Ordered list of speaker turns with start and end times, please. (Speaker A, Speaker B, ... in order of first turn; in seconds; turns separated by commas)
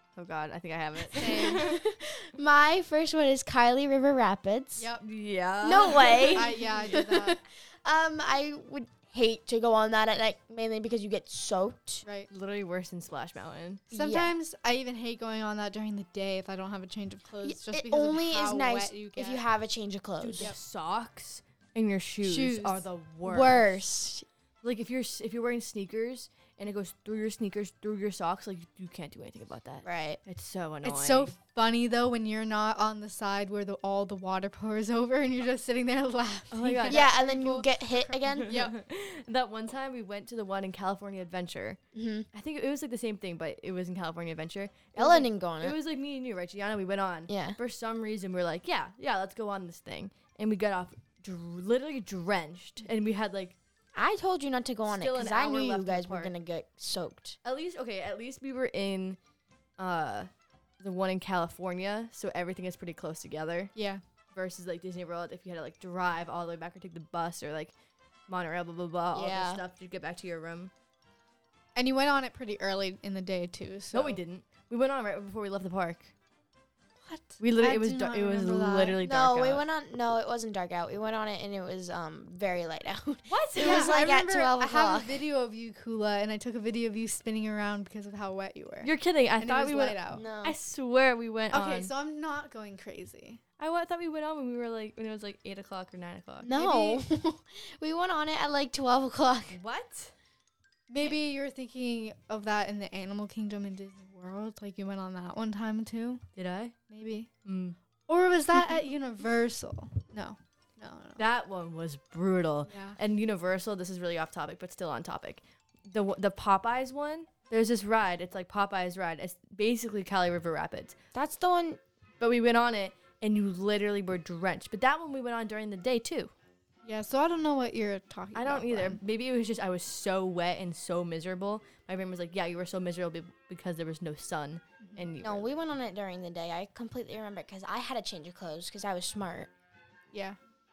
Speaker A: 0.2-1.8, Speaker B: 1.0-4.9, Speaker C: 1.2-1.7, Speaker C: 4.8-5.0, Speaker A: 5.0-6.7, Speaker B: 5.6-12.1, Speaker C: 6.2-7.4, Speaker A: 12.3-13.8, Speaker B: 13.9-14.3, Speaker C: 13.9-19.4, Speaker B: 17.4-20.5, Speaker A: 20.2-23.8, Speaker C: 22.2-22.9, Speaker B: 23.2-24.3, Speaker A: 24.6-31.3, Speaker B: 29.8-30.2, Speaker C: 30.8-38.8, Speaker A: 36.5-37.1, Speaker B: 36.9-38.5, Speaker A: 38.2-41.8, Speaker B: 41.9-42.3, Speaker A: 42.3-53.6, Speaker B: 45.0-45.8, Speaker B: 47.3-47.6, Speaker B: 54.0-57.4, Speaker A: 54.9-56.3, Speaker A: 57.4-59.2, Speaker A: 59.8-63.7, Speaker C: 63.8-64.0, Speaker A: 64.3-67.8, Speaker A: 68.3-70.7, Speaker B: 69.1-69.6, Speaker C: 71.8-74.2, Speaker A: 73.9-76.1, Speaker C: 77.0-79.0, Speaker A: 77.4-79.6, Speaker B: 79.0-85.2, Speaker A: 83.3-84.0, Speaker C: 83.6-90.2, Speaker A: 88.8-91.9, Speaker B: 90.1-90.6, Speaker C: 91.5-93.4, Speaker A: 93.6-96.5, Speaker B: 96.4-99.6, Speaker C: 96.5-97.0, Speaker A: 99.5-100.1, Speaker C: 100.9-106.2, Speaker A: 106.4-106.8, Speaker C: 106.9-107.3, Speaker A: 107.5-107.8, Speaker C: 108.1-111.2, Speaker A: 111.2-121.0, Speaker C: 112.7-113.0, Speaker B: 121.1-121.8, Speaker A: 122.2-126.3, Speaker C: 126.8-129.0, Speaker A: 128.3-135.5, Speaker C: 134.8-135.1, Speaker B: 135.2-139.5, Speaker C: 140.1-140.4